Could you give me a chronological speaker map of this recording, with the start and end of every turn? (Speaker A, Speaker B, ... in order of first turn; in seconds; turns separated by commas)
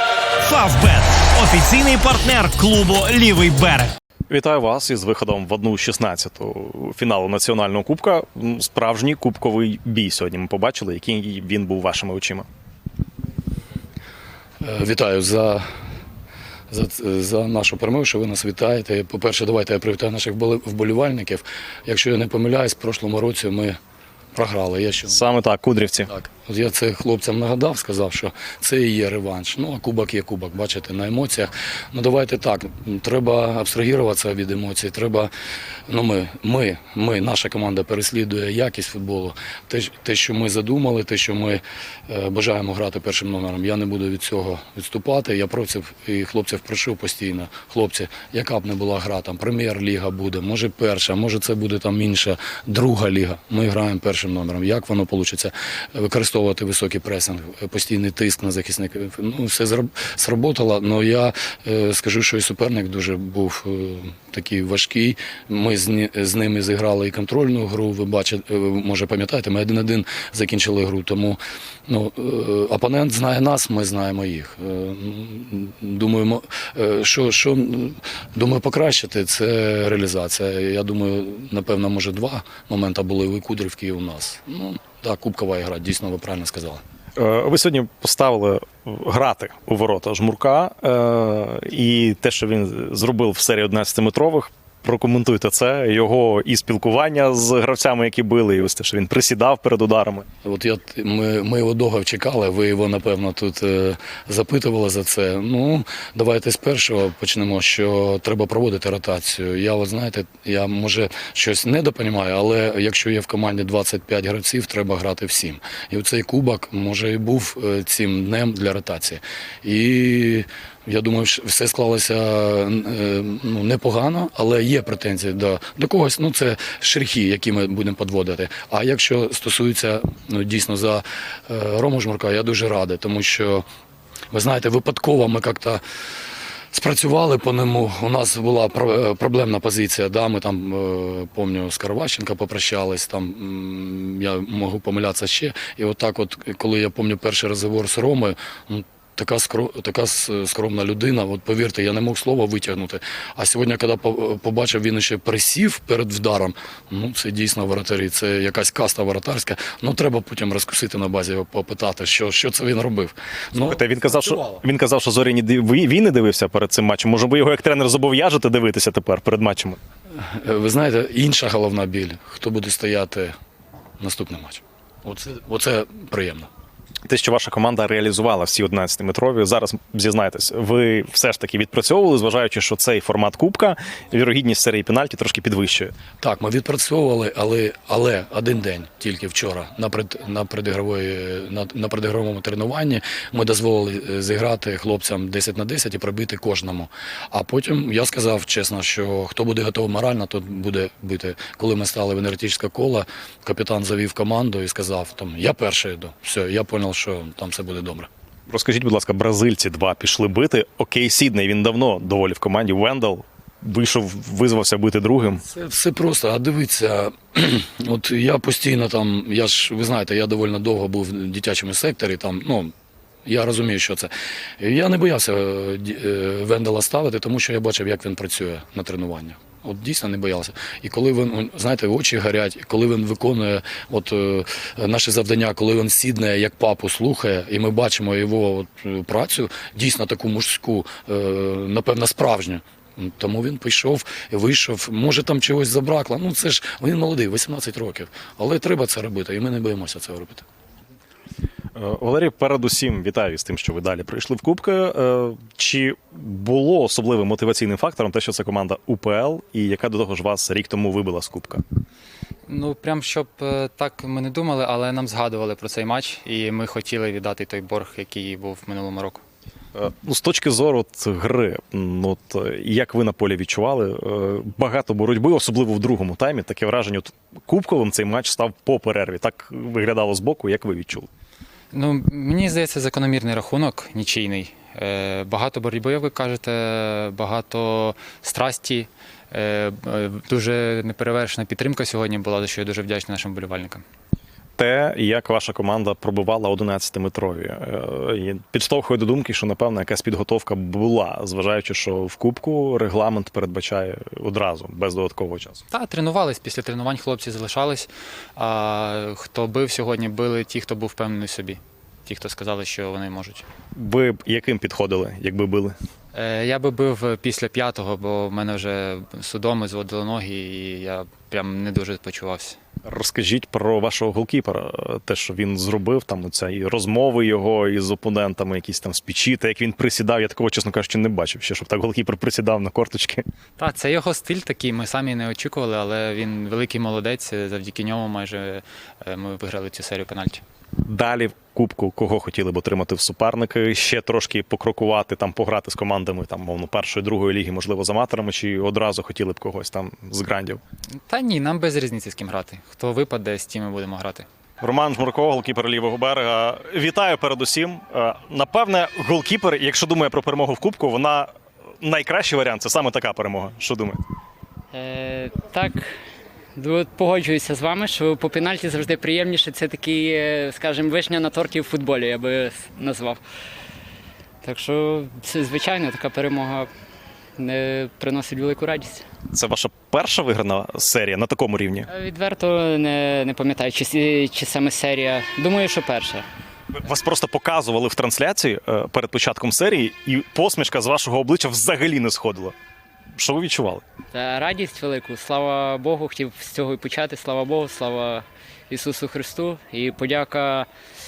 Speaker A: 0.4-3.9, Speaker B: 4.3-12.5, Speaker C: 14.6-15.6, Speaker C: 16.7-23.8, Speaker C: 24.3-25.2, Speaker B: 25.1-26.1, Speaker C: 26.1-35.3, Speaker C: 35.9-86.8, Speaker B: 87.2-100.2, Speaker C: 100.4-133.6, Speaker C: 134.3-135.8, Speaker C: 136.7-164.6, Speaker B: 163.5-169.8, Speaker C: 170.2-173.3, Speaker C: 174.0-176.5, Speaker B: 177.1-185.9, Speaker C: 186.2-208.1, Speaker B: 208.5-215.4, Speaker C: 215.4-222.7, Speaker C: 223.2-250.4, Speaker B: 251.7-261.6, Speaker D: 262.5-269.2, Speaker B: 269.7-281.1, Speaker D: 281.7-293.8, Speaker B: 294.6-305.6, Speaker D: 305.7-313.4, Speaker B: 313.8-315.8, Speaker D: 316.1-322.6, Speaker B: 322.8-333.2, Speaker D: 333.6-340.4, Speaker B: 340.8-350.6, Speaker D: 351.1-354.3, Speaker B: 354.6-364.0, Speaker E: 364.7-365.9, Speaker E: 366.6-373.2, Speaker E: 374.4-376.7, Speaker E: 377.4-379.0, Speaker B: 379.3-381.9, Speaker E: 381.9-386.2, Speaker B: 386.8-392.5, Speaker B: 393.1-393.8, Speaker E: 394.1-400.7